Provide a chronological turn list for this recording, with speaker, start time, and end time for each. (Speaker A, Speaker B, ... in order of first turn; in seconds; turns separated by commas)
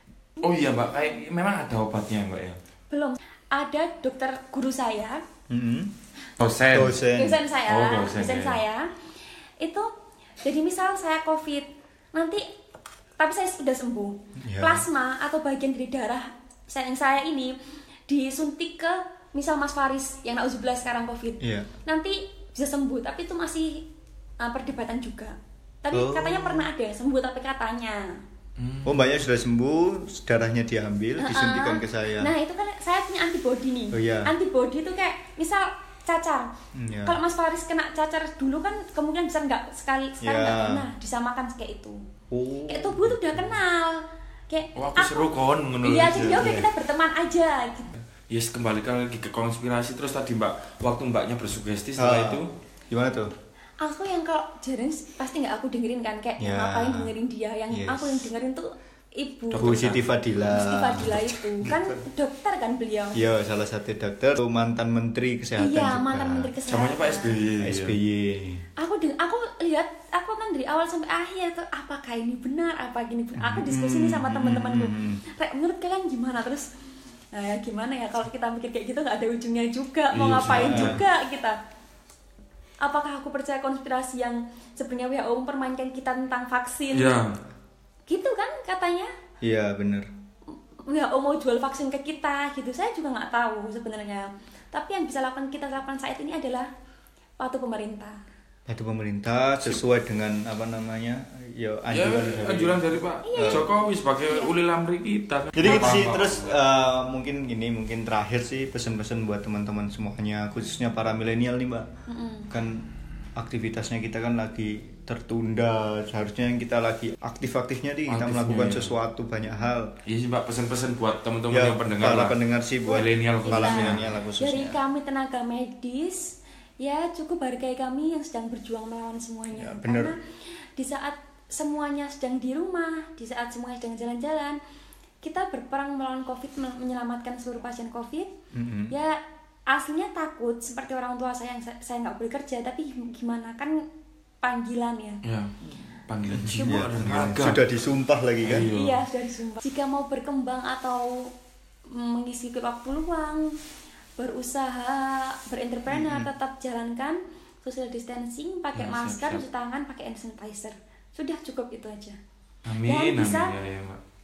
Speaker A: 0.4-2.5, Speaker B: 2.9-5.2, Speaker C: 5.5-5.9, Speaker A: 6.4-7.0, Speaker C: 6.7-7.4, Speaker B: 7.1-8.9, Speaker A: 7.7-8.6, Speaker B: 9.6-9.9, Speaker B: 10.4-12.4, Speaker B: 13.2-17.5, Speaker C: 14.4-14.8, Speaker B: 18.1-23.9, Speaker C: 21.4-21.7, Speaker B: 24.4-28.1, Speaker C: 25.9-26.7, Speaker A: 28.6-29.1, Speaker C: 28.8-32.3, Speaker B: 31.2-36.5, Speaker C: 33.9-34.3, Speaker C: 36.7-37.2, Speaker B: 37.0-42.0, Speaker C: 40.2-40.9, Speaker C: 42.3-43.6, Speaker B: 42.7-45.3, Speaker A: 44.7-46.5, Speaker B: 45.8-48.0, Speaker C: 46.3-46.7, Speaker A: 48.3-52.5, Speaker C: 52.0-53.3, Speaker B: 53.8-59.9, Speaker C: 56.4-57.1, Speaker C: 57.7-58.3, Speaker A: 59.5-60.2, Speaker C: 59.6-62.0, Speaker B: 60.5-63.2, Speaker C: 63.1-66.5, Speaker B: 65.6-67.4, Speaker A: 66.7-68.0, Speaker C: 67.6-68.6, Speaker B: 68.8-76.7, Speaker C: 73.3-75.2, Speaker B: 77.3-81.5, Speaker A: 80.1-81.0, Speaker C: 80.5-81.0, Speaker B: 82.8-87.2, Speaker A: 86.9-87.3, Speaker B: 88.1-89.1, Speaker C: 89.4-90.0, Speaker B: 90.8-96.7, Speaker B: 97.4-98.2, Speaker C: 98.7-102.8, Speaker A: 101.9-106.5, Speaker B: 103.2-103.7, Speaker C: 103.3-103.7, Speaker B: 104.2-104.5, Speaker C: 105.5-111.9, Speaker B: 105.6-105.9, Speaker B: 112.1-112.5, Speaker C: 112.5-119.9, Speaker A: 118.1-118.9, Speaker A: 120.0-122.3, Speaker C: 121.5-124.8, Speaker B: 122.8-130.2, Speaker A: 122.9-124.1, Speaker C: 129.5-130.1, Speaker B: 130.8-134.6, Speaker B: 135.2-138.3, Speaker C: 138.5-138.9, Speaker B: 138.9-143.8, Speaker B: 144.4-145.2, Speaker A: 145.2-145.5, Speaker A: 146.1-147.6, Speaker C: 146.3-148.7, Speaker A: 148.4-149.0, Speaker B: 148.7-151.3, Speaker B: 151.9-153.6, Speaker B: 154.2-162.2, Speaker C: 155.9-156.3, Speaker A: 158.7-159.4, Speaker A: 162.7-164.0, Speaker B: 162.8-163.5